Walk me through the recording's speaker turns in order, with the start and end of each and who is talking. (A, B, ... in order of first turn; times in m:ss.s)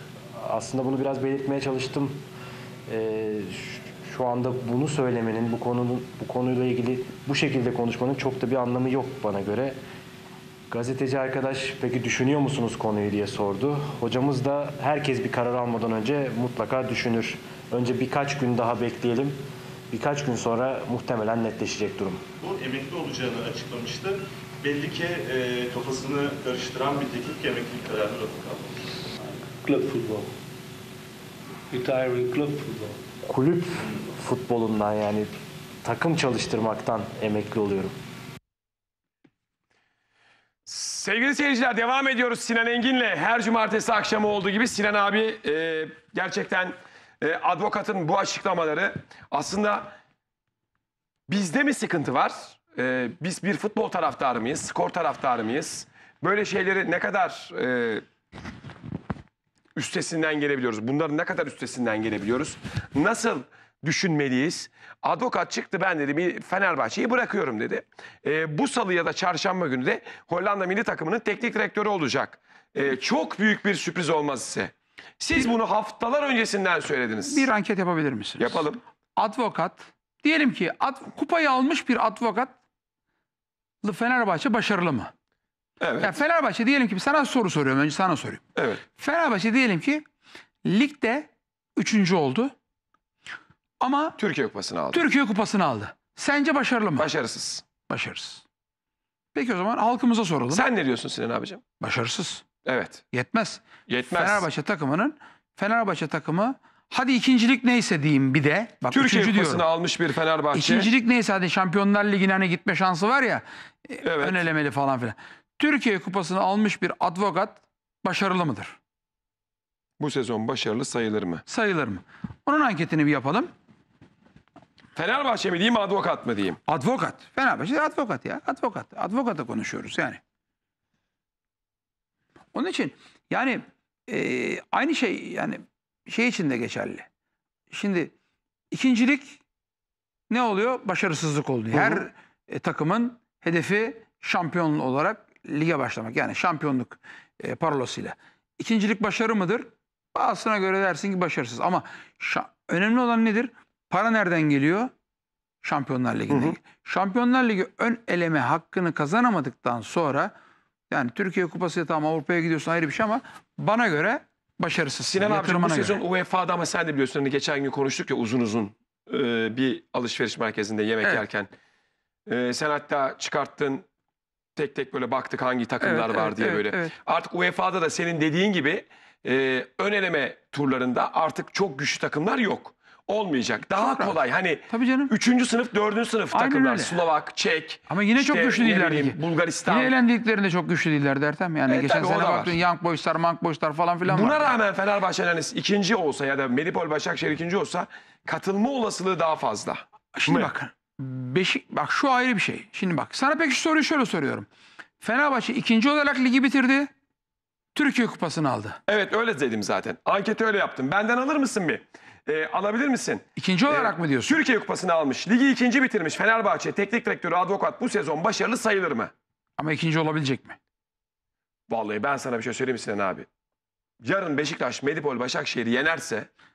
0:00.4-0:02.2 A
0:02.9-0:09.8 A
0:10.7-0:19.4 A
0:19.9-0:22.2 A
0:22.4-0:28.8 B
0:29.3-0:30.3 C
0:31.7-0:33.0 C
0:33.2-0:35.3 A
0:35.8-0:37.9 A
0:40.6-0:49.9 D
0:51.3-0:58.0 D
0:59.7-1:17.5 D
1:17.3-1:18.6 E
1:18.4-1:18.8 D
1:19.2-1:22.6 E
1:23.8-1:25.1 E
1:25.8-1:26.1 D
1:26.0-1:28.4 E
1:28.6-1:28.8 D
1:28.9-1:30.0 E
1:30.6-1:32.5 E
1:33.8-1:34.2 E
1:34.2-1:35.1 D
1:34.9-1:37.1 E
1:37.0-1:37.6 D
1:37.9-1:38.4 E
1:39.3-1:40.6 E
1:40.5-1:41.6 D
1:41.8-1:42.4 E
1:42.6-1:43.0 D
1:43.1-1:49.6 E
1:43.9-1:44.4 D
1:48.9-1:50.9 D
1:50.5-1:58.8 E
1:54.0-1:54.4 D
2:00.0-2:01.4 D
2:01.5-2:03.5 E
2:04.9-2:06.6 D
2:06.7-2:10.2 E
2:12.5-2:17.1 E
2:17.7-2:18.1 E
2:18.7-2:19.4 E
2:20.3-2:34.9 E
2:21.7-2:22.0 D
2:35.6-2:40.3 E
2:36.3-2:36.6 D
2:40.9-2:46.0 E
2:45.0-2:51.5 D
2:52.2-2:53.8 D
2:54.6-3:09.9 D
2:55.8-2:56.9 E
3:03.6-3:04.2 E
3:04.7-3:05.1 E
3:06.3-3:07.0 E
3:07.9-3:09.2 E
3:09.7-3:14.5 E
3:11.7-3:12.6 D
3:14.0-3:20.5 D
3:20.2-3:24.5 E
3:25.0-3:26.9 E
3:27.7-3:28.8 E
3:28.9-3:39.1 D
3:33.4-3:34.4 E
3:39.6-3:40.6 E
3:41.7-3:43.3 D
3:44.0-3:46.3 D